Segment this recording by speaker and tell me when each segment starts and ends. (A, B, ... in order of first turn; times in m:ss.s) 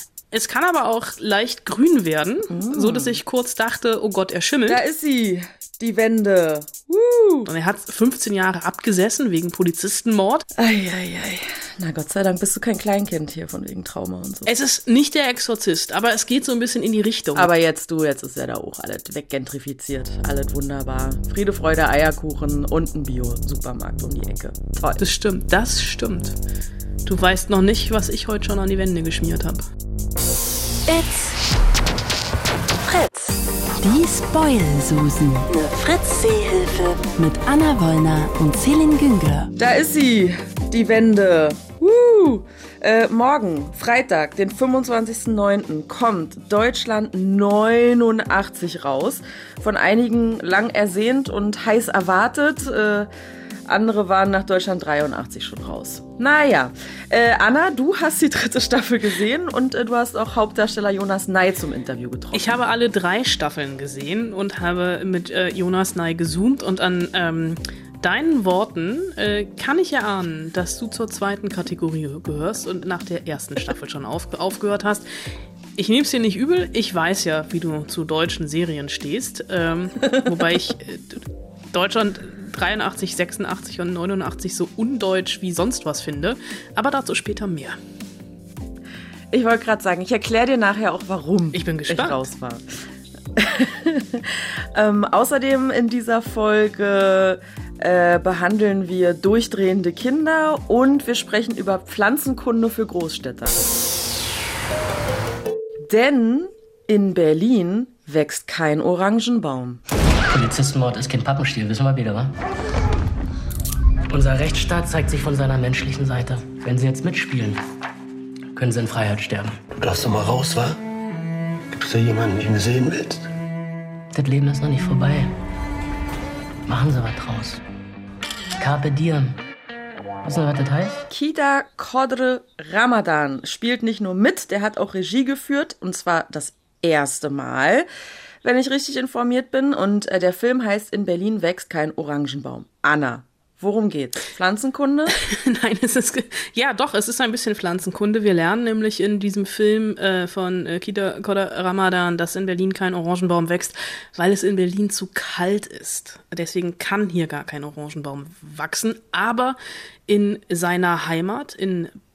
0:00.3-0:04.8 A
0:02.5-0:03.2 B
0:04.6-0:07.5 B
0:07.4-0:10.4 A
0:10.5-0:14.5 B
0:14.4-0:17.5 A
0:17.3-0:25.0 B
0:25.0-0:26.3 A
0:27.0-0:29.6 A
0:30.9-0:31.4 C
0:32.8-0:39.5 C
0:39.6-0:53.1 B
0:53.6-1:02.6 B
1:02.3-1:15.0 A
1:15.8-1:27.8 A
1:29.3-1:32.6 B
1:31.5-1:32.2 A
1:33.3-1:43.6 B
1:45.8-1:49.8 B
1:50.3-1:52.3 D
1:54.1-1:57.6 D
1:58.5-1:59.6 D
1:59.8-2:00.8 E
2:01.7-2:03.2 E
2:04.1-2:05.3 D
2:06.7-2:07.6 D
2:08.6-2:09.4 D
2:10.2-2:11.0 D
2:11.1-2:17.9 B
2:18.4-2:25.2 B
2:25.2-2:39.6 A
2:40.1-2:41.9 A